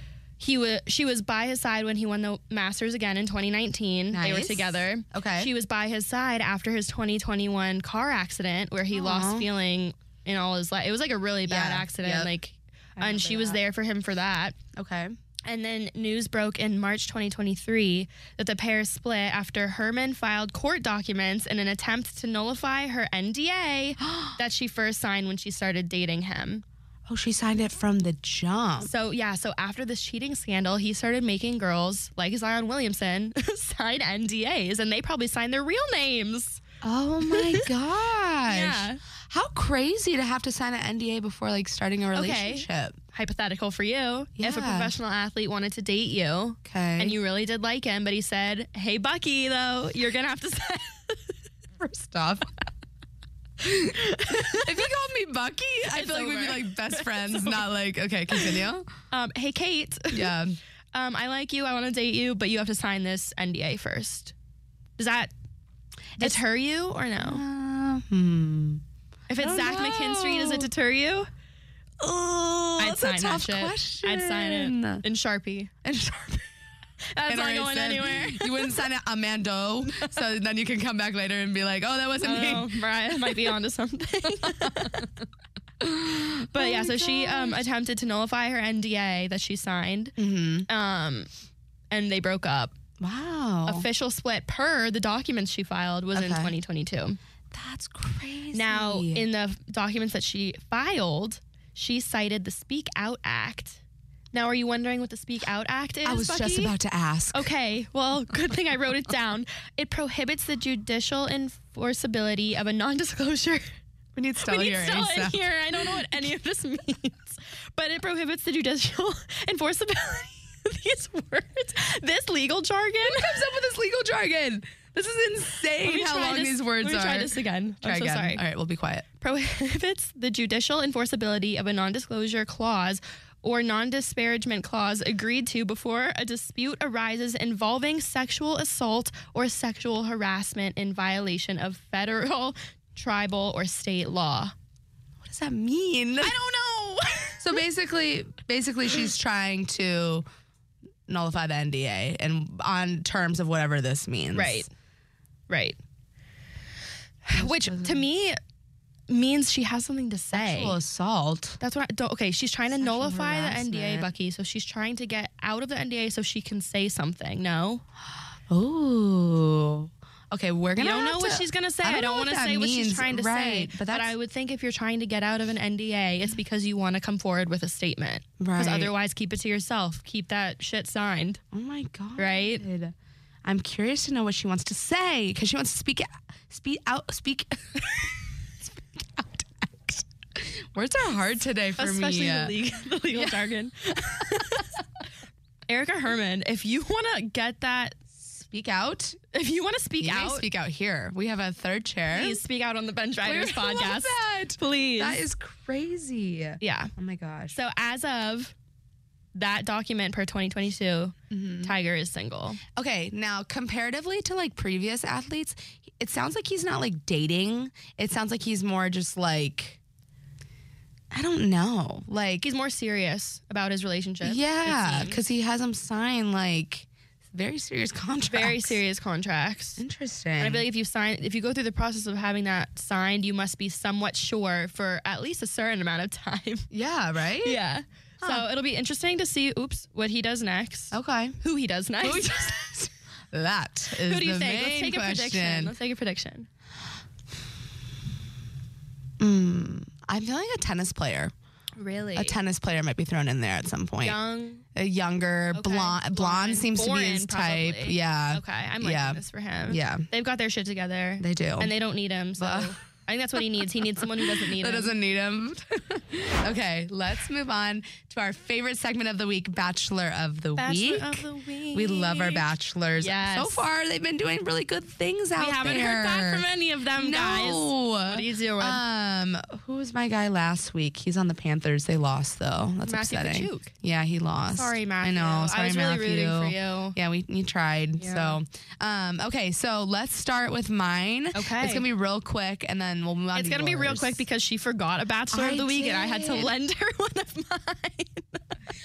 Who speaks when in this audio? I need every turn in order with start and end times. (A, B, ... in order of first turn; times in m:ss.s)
0:00.4-0:14.6 A
0:04.1-0:05.5 B
0:08.9-0:09.5 B
0:11.5-0:12.3 B
0:13.0-0:13.6 B
0:14.7-0:15.2 B
0:15.4-0:26.6 A
0:24.0-0:24.4 B
0:27.1-0:28.9 B
0:28.8-0:36.6 A
0:36.8-0:43.0 B
0:37.3-0:37.7 A
0:38.5-0:39.0 A
0:42.1-0:51.3 A
0:44.4-0:44.9 B
0:46.6-0:47.2 B
0:51.8-0:52.5 B
0:53.6-0:58.9 B
0:53.9-0:54.9 A
0:55.9-0:57.7 A
0:58.3-1:00.4 A
1:00.1-1:00.6 B
1:00.9-1:04.3 A
1:05.0-1:05.3 A
1:06.2-1:06.4 B
1:06.2-1:07.4 A
1:07.2-1:08.8 B
1:09.3-1:11.3 A
1:09.4-1:10.7 B
1:12.0-1:15.0 B
1:12.8-1:15.7 A
1:15.8-1:16.5 B
1:17.1-1:18.8 A
1:17.3-1:23.5 B
1:19.8-1:20.2 A
1:22.2-1:25.1 A
1:24.4-1:25.1 B
1:25.8-1:27.6 B
1:26.5-1:30.2 A
1:30.2-1:30.7 B
1:30.7-1:31.3 A
1:31.9-1:32.8 A
1:33.0-1:33.9 B
1:33.7-1:37.2 A
1:36.1-1:36.5 B
1:37.5-1:39.3 B
1:38.5-1:43.8 A
1:44.3-1:46.8 A
1:46.0-1:47.5 B
1:47.3-1:53.7 A
1:54.2-1:56.0 B
1:54.4-2:03.4 A
2:03.0-2:09.1 B
2:05.8-2:08.4 A
2:09.2-2:24.5 A
2:25.2-2:26.4 B
2:26.2-2:27.6 A
2:27.4-2:30.3 B
2:31.1-2:34.7 B
2:34.3-2:34.7 A
2:35.5-2:35.8 A
2:37.2-2:38.4 A
2:37.3-2:38.1 B
2:39.1-2:40.8 A
2:40.3-2:41.6 B
2:41.6-2:47.8 A
2:42.8-2:44.1 B
2:48.5-2:54.1 B
2:50.8-3:01.4 A
2:58.4-2:58.9 B
3:01.5-3:12.6 B
3:02.2-3:02.6 A
3:11.8-3:14.8 A
3:13.1-3:13.5 B
3:15.7-3:18.0 A
3:18.2-3:19.2 B
3:19.3-3:20.5 A
3:20.0-3:22.4 B
3:22.1-3:25.2 A
3:23.2-3:27.6 B
3:26.6-3:26.9 A
3:27.5-3:28.6 A
3:29.4-3:32.6 A
3:31.3-3:31.7 B
3:32.8-3:39.8 B
3:41.1-3:42.4 B
3:42.4-3:45.2 A
3:44.2-3:48.8 B
3:48.3-3:49.8 A
3:49.8-3:50.6 B
3:50.4-3:56.7 A
3:56.7-3:57.6 B
3:57.4-4:02.7 A
3:58.2-3:58.5 B
4:00.9-4:01.4 B
4:02.0-4:05.8 B
4:04.0-4:06.5 A
4:09.2-4:11.3 B
4:11.8-4:12.4 A
4:12.2-4:14.2 B
4:14.0-4:14.6 A
4:14.8-4:20.1 B
4:15.5-4:25.0 A
4:21.2-4:21.7 B
4:22.4-4:22.7 B
4:24.0-4:54.2 B
4:30.6-4:33.6 A
4:35.4-4:38.8 A
4:42.9-4:43.7 A
4:44.5-4:47.0 A
4:48.0-4:48.4 A
4:51.3-4:51.9 A
4:53.3-4:58.6 A
4:55.3-4:56.5 B